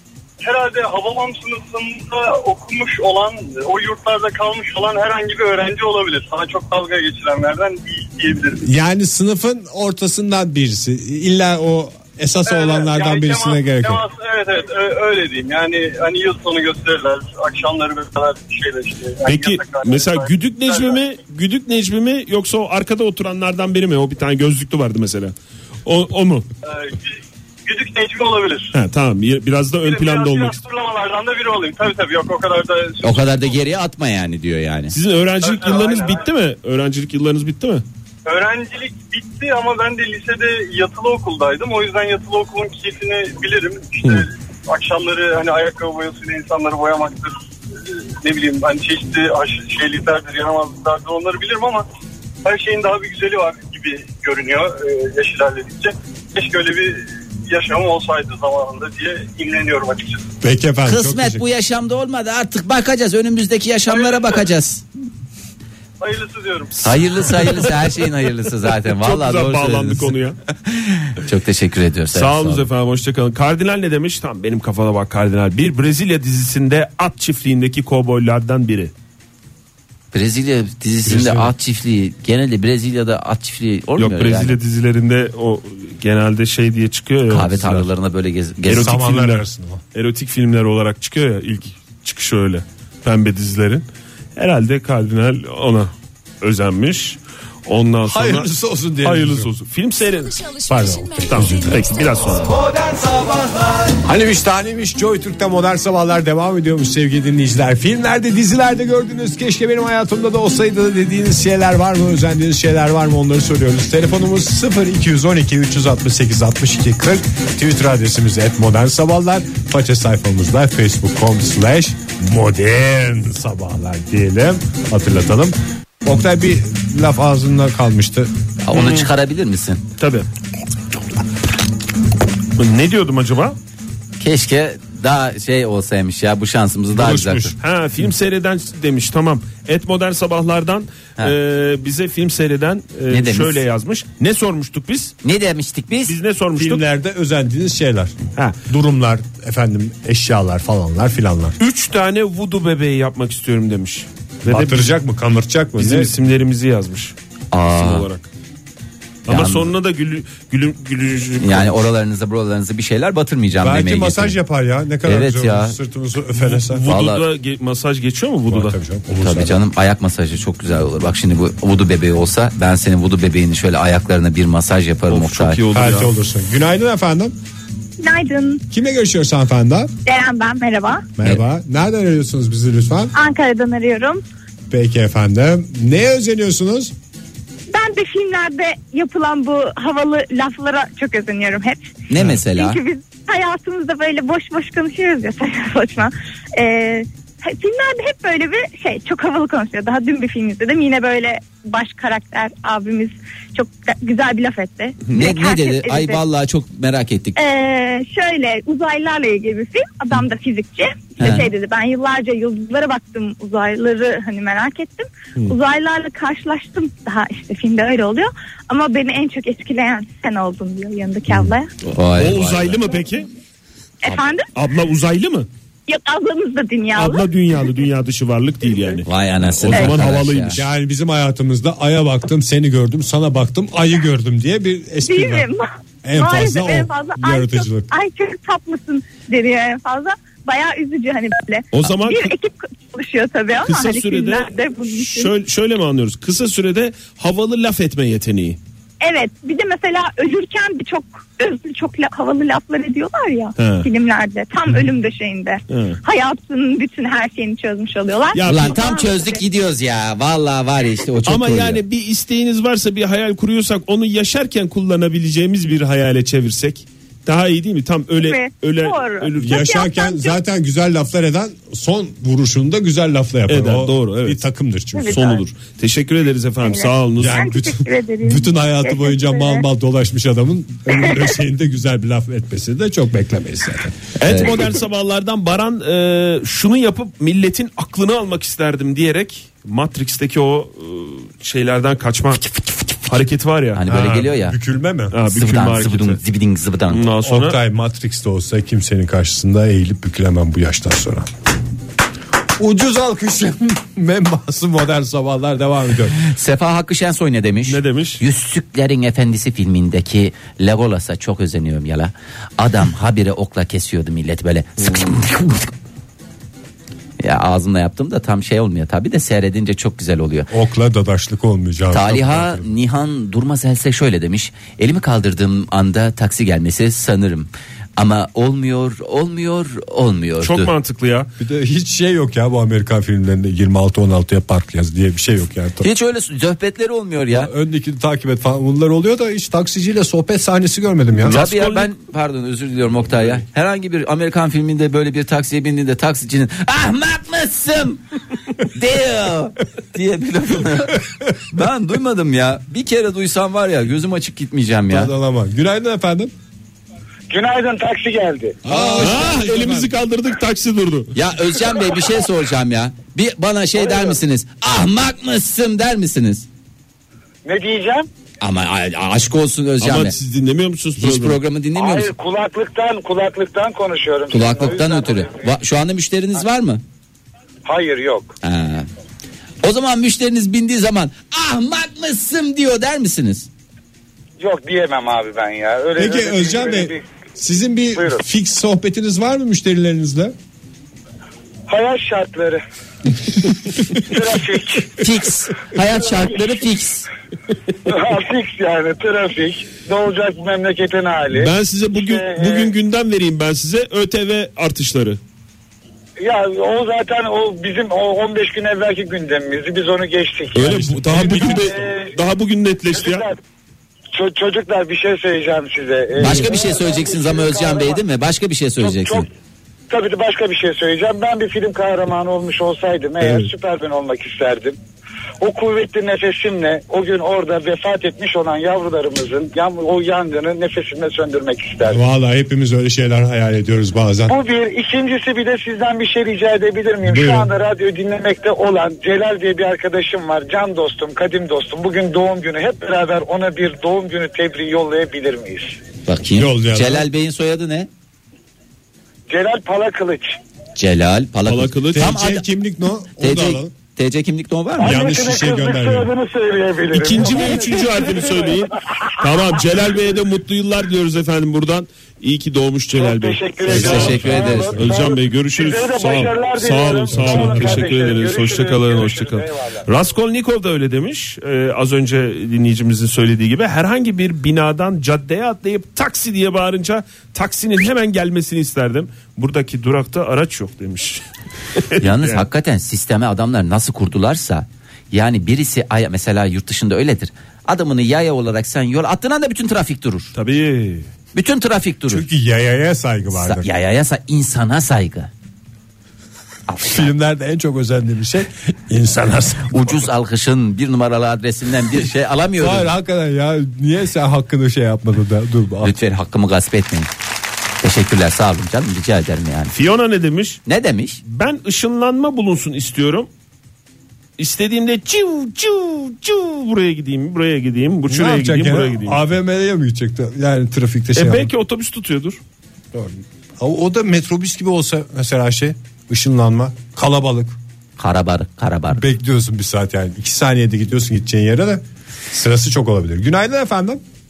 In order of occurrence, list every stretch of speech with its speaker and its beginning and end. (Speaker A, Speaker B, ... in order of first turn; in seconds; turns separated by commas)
Speaker A: 0.4-8.6, Speaker B: 8.6-14.0, Speaker A: 12.4-21.0, Speaker C: 19.2-26.4, Speaker A: 26.6-28.7, Speaker C: 28.7-30.6, Speaker A: 29.8-33.6, Speaker D: 33.0-34.9, Speaker C: 34.9-37.8, Speaker A: 35.4-36.3, Speaker A: 38.2-51.9, Speaker A: 52.4-60.3, Speaker B: 60.4-61.4, Speaker D: 60.9-64.8, Speaker A: 63.9-64.5, Speaker A: 66.0-67.0, Speaker D: 66.8-70.1, Speaker C: 69.0-70.4, Speaker D: 70.6-72.7, Speaker C: 72.1-78.9, Speaker D: 80.1-84.6, Speaker B: 81.1-81.5, Speaker C: 84.0-87.9, Speaker D: 87.3-89.0, Speaker B: 88.7-89.8, Speaker C: 88.7-93.8, Speaker C: 94.3-98.5, Speaker B: 98.0-99.5, Speaker C: 99.0-100.6, Speaker B: 100.5-102.0, Speaker C: 101.2-102.5, Speaker B: 104.0-128.3, Speaker D: 128.6-129.8, Speaker C: 128.7-129.1, Speaker C: 130.0-130.3, Speaker C: 132.6-133.6, Speaker D: 134.2-137.5, Speaker B: 136.9-137.6, Speaker C: 137.6-145.1, Speaker D: 143.1-143.6, Speaker D: 145.2-146.1, Speaker C: 146.1-146.8, Speaker B: 146.6-148.1, Speaker B: 148.7-151.6, Speaker C: 151.6-154.9, Speaker B: 154.4-156.1, Speaker C: 155.8-157.1, Speaker D: 157.5-158.1, Speaker C: 157.7-158.3, Speaker D: 159.3-159.7, Speaker C: 159.3-161.9, Speaker D: 161.4-164.4, Speaker B: 163.6-166.8, Speaker D: 165.0-165.8, Speaker C: 166.4-168.8, Speaker D: 166.9-167.2, Speaker B: 168.5-169.6, Speaker D: 169.2-175.6, Speaker C: 175.1-176.1, Speaker B: 175.7-177.3, Speaker E: 178.0-178.6, Speaker B: 178.7-179.9, Speaker E: 180.1-181.1, Speaker B: 181.2-183.1, Speaker E: 183.1-184.2, Speaker B: 184.7-186.9, Speaker E: 187.7-191.9, Speaker D: 192.1-192.8, Speaker E: 192.5-206.2, Speaker D: 205.1-207.4, Speaker E: 207.3-221.7, Speaker D: 211.2-211.4, Speaker D: 221.3-222.9, Speaker C: 222.1-223.3, Speaker E: 224.0-224.5, Speaker C: 224.5-225.5, Speaker E: 225.9-227.2, Speaker C: 226.9-230.6, Speaker D: 229.1-230.6, Speaker B: 230.5-235.5, Speaker E: 235.0-245.3, Speaker B: 236.0-237.9, Speaker C: 241.7-242.3, Speaker C: 243.6-248.6, Speaker E: 249.0-259.4, Speaker C: 253.6-253.9, Speaker C: 255.7-256.0, Speaker C: 258.3-258.8, Speaker D: 258.4-261.8, Speaker C: 261.2-269.6, Speaker E: 268.2-270.4, Speaker B: 269.4-275.4, Speaker C: 273.5-274.4, Speaker E: 274.9-275.4, Speaker C: 275.1-277.4, Speaker E: 276.6-279.6, Speaker B: 277.2-284.5, Speaker C: 284.2-293.8, Speaker D: 284.2-284.5, Speaker D: 293.7-294.6, Speaker B: 293.9-295.1, Speaker C: 295.1-296.2, Speaker D: 295.2-297.0, Speaker C: 296.9-297.6, Speaker B: 297.2-301.3, Speaker B: 302.6-306.2, Speaker D: 306.2-315.7, Speaker C: 307.6-308.2, Speaker C: 314.8-315.1, Speaker D: 317.2-320.5, Speaker B: 320.5-322.7, Speaker D: 321.9-330.7, Speaker C: 330.4-331.3, Speaker B: 331.4-335.9, Speaker D: 335.8-337.5, Speaker B: 337.3-341.4, Speaker C: 341.2-341.9, Speaker D: 341.2-348.0, Speaker D: 348.6-355.1, Speaker B: 354.9-356.3, Speaker F: 357.3-358.6, Speaker B: 358.6-359.9, Speaker C: 358.7-361.1, Speaker D: 358.7-359.3, Speaker D: 361.1-366.5, Speaker F: 363.9-364.1, Speaker F: 367.4-368.1, Speaker D: 368.4-370.1, Speaker C: 369.8-371.4, Speaker D: 371.0-372.1, Speaker F: 371.8-375.5, Speaker D: 374.3-376.8, Speaker F: 377.6-378.3, Speaker D: 378.4-378.9, Speaker D: 379.6-383.5, Speaker F: 384.4-387.0, Speaker B: 385.9-390.3, Speaker F: 387.9-388.2, Speaker F: 391.7-392.6, Speaker F: 393.9-395.1, Speaker D: 395.0-397.1, Speaker F: 396.0-396.4, Speaker F: 397.8-402.7, Speaker C: 401.3-405.2, Speaker F: 406.2-412.1, Speaker C: 410.5-413.3, Speaker B: 410.6-411.7, Speaker F: 412.9-413.4, Speaker F: 414.1-418.0, Speaker D: 416.2-419.3, Speaker F: 418.8-419.3, Speaker F: 419.9-424.8, Speaker F: 425.4-432.0, Speaker B: 431.9-434.4, Speaker F: 434.3-445.8, Speaker B: 437.0-437.5, Speaker D: 446.1-447.9, Speaker B: 446.4-447.1, Speaker F: 449.3-450.3, Speaker D: 450.8-452.4, Speaker C: 451.4-452.1, Speaker B: 451.9-453.7, Speaker D: 453.2-455.0, Speaker B: 454.8-456.1, Speaker F: 454.8-458.6, Speaker C: 456.9-481.2, Speaker F: 463.0-469.9, Speaker D: 463.7-464.8, Speaker B: 463.7-465.0, Speaker B: 467.1-468.2, Speaker C: 481.8-482.4, Speaker D: 482.0-490.3, Speaker C: 490.3-491.1, Speaker D: 491.3-492.2, Speaker B: 492.1-493.7, Speaker D: 493.3-495.3, Speaker D: 496.7-497.1, Speaker B: 496.8-500.1, Speaker D: 499.7-502.9, Speaker B: 502.6-505.9, Speaker D: 505.8-507.1, Speaker D: 507.8-509.7, Speaker C: 509.7-510.6, Speaker D: 510.6-511.2, Speaker C: 511.2-513.3, Speaker C: 514.4-519.2, Speaker B: 518.1-521.5, Speaker C: 521.1-522.4, Speaker B: 522.9-527.6, Speaker D: 528.0-529.0, Speaker B: 528.9-534.0